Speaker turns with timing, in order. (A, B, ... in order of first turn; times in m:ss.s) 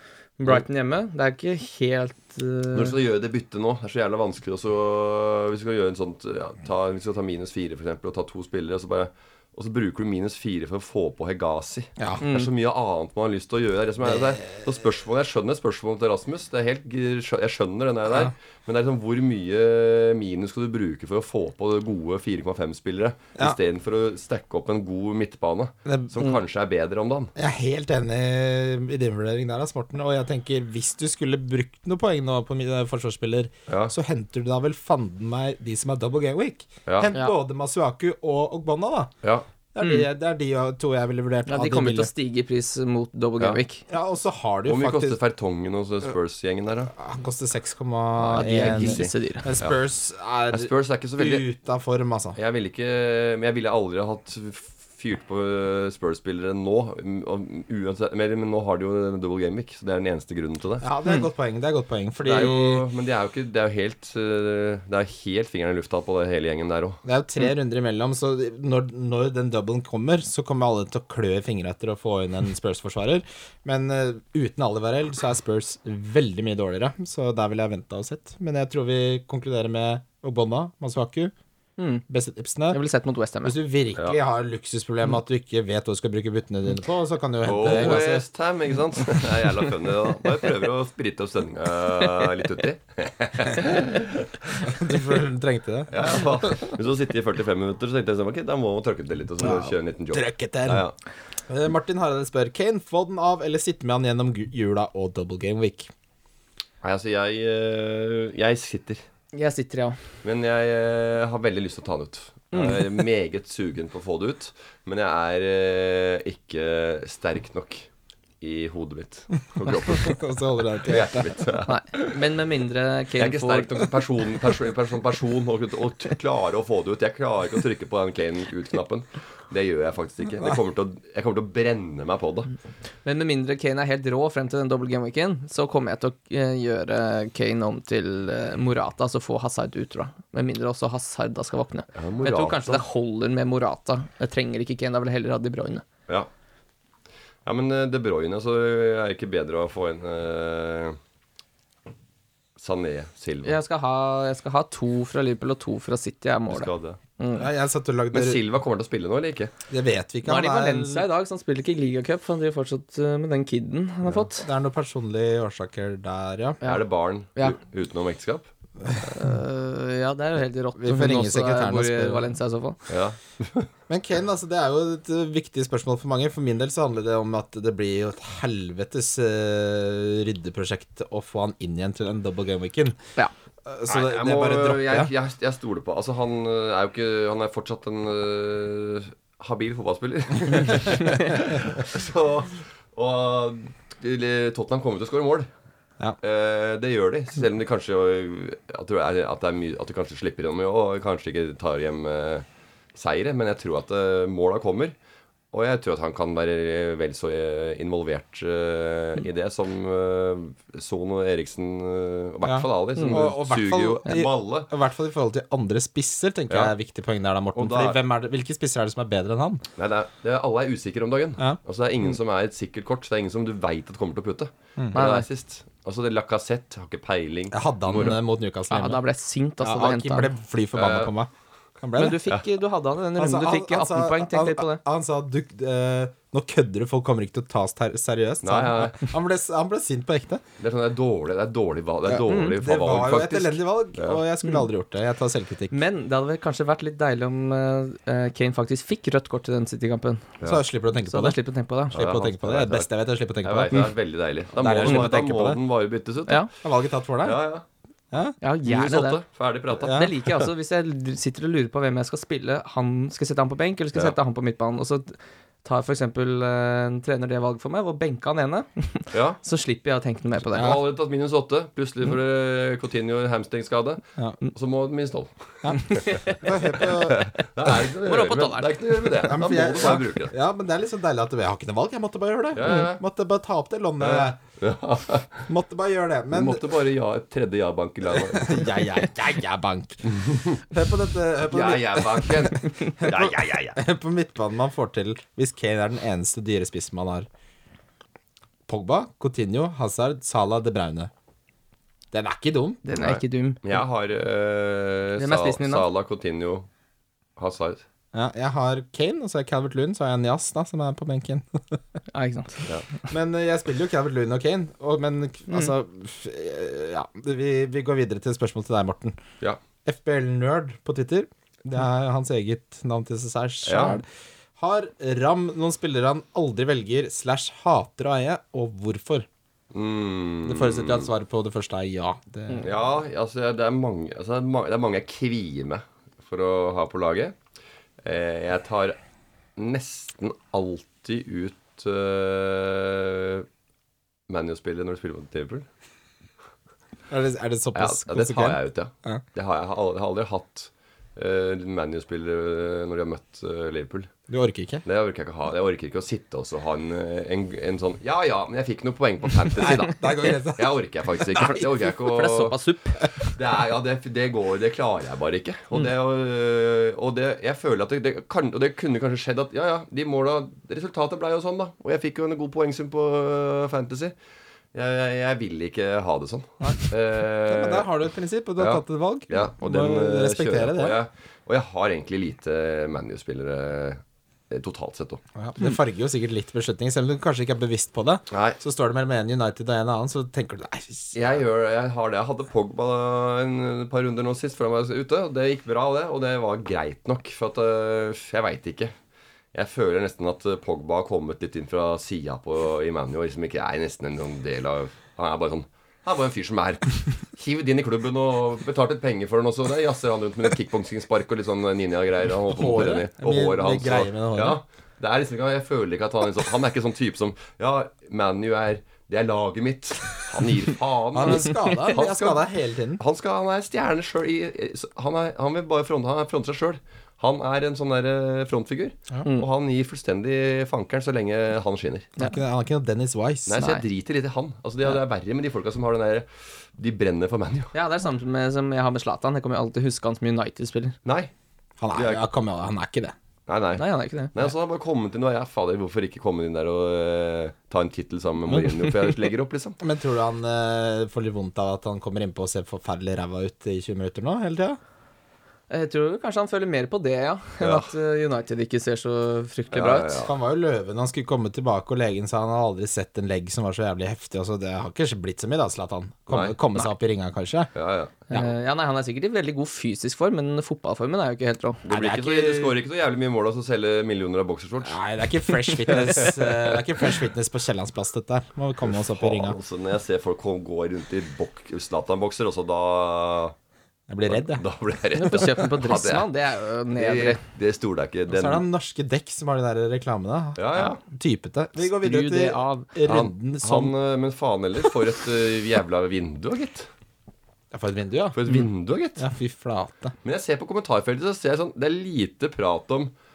0:00.4-0:03.0 A
0:02.7-0:27.3 B
0:12.2-0:12.5 A
0:14.1-0:14.6 C
0:25.8-0:26.1 C
0:27.4-0:39.1 C
0:33.7-0:33.9 B
0:36.8-0:37.1 B
0:39.7-0:42.1 C
0:39.8-0:40.1 A
0:41.5-0:43.8 A
0:43.9-0:45.2 C
0:44.7-0:46.9 B
0:47.0-0:52.4 C
0:48.2-0:49.7 B
0:48.3-0:49.5 A
0:50.5-0:51.4 B
0:52.4-1:00.9 B
1:00.8-1:02.8 C
1:02.2-1:07.0 B
1:07.0-1:21.3 C
1:21.8-1:22.0 A
1:22.1-1:22.8 C
1:22.7-1:23.5 A
1:23.4-1:28.2 C
1:27.4-1:34.9 B
1:34.6-1:36.5 C
1:35.9-1:40.9 B
1:39.4-1:40.8 C
1:41.5-1:45.9 C
1:46.8-1:49.0 B
1:49.3-1:50.0 A
1:50.2-1:57.9 B
1:52.5-1:52.8 A
1:58.4-2:00.2 B
1:59.7-2:01.3 C
2:00.8-2:02.2 B
2:01.7-2:03.8 A
2:03.2-2:12.5 B
2:13.0-2:25.8 A
2:21.9-2:22.8 B
2:27.4-2:31.0 B
2:32.6-2:33.6 B
2:33.4-2:37.5 A
2:36.5-2:37.0 B
2:37.4-2:38.4 C
2:38.1-2:39.5 B
2:39.7-2:41.1 C
2:40.2-2:44.4 A
2:44.4-2:46.6 C
2:46.6-2:48.5 B
2:49.0-2:52.8 A
2:50.8-2:52.2 C
2:52.9-2:53.7 B
2:53.9-3:03.0 C
3:03.6-3:05.1 C
3:03.9-3:15.5 B
3:16.2-3:24.9 B
3:25.5-3:34.7 B
3:32.4-3:39.6 C
3:33.0-3:33.2 A
3:37.5-3:38.0 B
3:39.8-3:48.2 B
3:44.9-3:45.2 A
3:47.5-3:49.0 C
3:48.7-3:50.3 A
3:49.6-3:51.3 C
3:50.7-3:51.1 B
3:51.8-3:52.2 C
3:52.0-3:54.8 A
3:53.2-4:00.4 C
3:58.4-3:59.0 B
4:00.6-4:04.2 B
4:02.1-4:05.8 C
4:02.2-4:02.5 A
4:05.7-4:10.3 A
4:10.4-4:11.4 C
4:11.1-4:12.0 A
4:11.9-4:13.9 C
4:11.9-4:12.9 B
4:13.4-4:16.5 B
4:14.5-4:15.6 C
4:16.6-4:17.4 C
4:17.2-4:17.6 B
4:18.1-4:18.4 C
4:18.4-4:19.2 A
4:18.6-4:20.4 B
4:19.8-4:20.1 C
4:19.8-4:30.8 A
4:29.1-4:29.4 B
4:30.5-4:36.1 B
4:30.5-4:30.8 C
4:35.6-4:37.3 C
4:35.7-4:36.9 A
4:36.8-4:40.3 B
4:38.0-4:39.2 A
4:39.2-4:44.4 C
4:42.5-4:43.0 B
4:44.0-4:45.5 B
4:45.5-4:46.7 C
4:46.3-4:48.8 B
4:48.1-4:57.3 C
4:50.1-4:50.6 B
4:51.5-4:53.8 B
4:58.7-5:01.1 C
5:02.1-5:02.8 C
5:02.8-5:03.8 A
5:02.9-5:06.7 B
5:05.2-5:05.8 A
5:07.4-5:07.8 B
5:08.1-5:11.8 C
5:12.1-5:12.6 A
5:13.1-5:19.2 C
5:19.8-5:24.0 C
5:23.6-5:24.0 B
5:24.6-5:29.3 C
5:29.7-5:31.1 B
5:30.4-5:32.7 C
5:32.6-5:37.4 B
5:38.0-5:39.0 B
5:39.6-5:43.4 B
5:44.3-5:45.7 B
5:47.1-5:49.2 C
5:47.7-5:54.1 B
5:54.3-5:54.8 C
5:54.8-6:02.6 B
5:59.6-6:01.7 C
6:02.0-6:03.1 A
6:03.2-6:14.1 B
6:14.7-6:17.9 B
6:17.5-6:21.0 C
6:18.6-6:25.2 B
6:25.4-6:31.2 C
6:28.3-6:28.6 B
6:31.1-6:38.9 B
6:39.5-7:02.4 B
6:52.5-6:54.6 C
7:01.1-7:03.0 C
7:03.0-7:12.1 B
7:12.2-7:13.6 C
7:13.5-7:17.7 B
7:13.6-7:13.8 A
7:17.7-7:21.0 A
7:21.0-7:21.3 B
7:21.8-7:23.1 C
7:21.9-7:22.2 B
7:23.5-7:29.8 B
7:23.8-7:24.3 A
7:29.8-7:34.8 C
7:35.7-7:40.2 A
7:37.6-7:37.9 B
7:39.7-7:40.3 B
7:40.2-7:47.7 C
7:46.3-7:46.6 B
7:47.7-7:48.2 B
7:48.3-7:51.8 A
7:51.8-7:55.0 B
7:51.9-7:52.8 C
7:54.8-7:59.6 C
7:55.9-7:56.8 B
7:58.8-8:03.5 B
8:04.1-8:04.6 C
8:04.3-8:06.3 B
8:05.1-8:07.4 A
8:07.0-8:08.6 B
8:08.3-8:13.9 C
8:10.6-8:11.0 B
8:11.8-8:12.9 A
8:13.0-8:16.9 B
8:17.7-8:18.7 C
8:18.3-8:19.2 B
8:19.2-8:20.1 C
8:20.2-8:23.1 B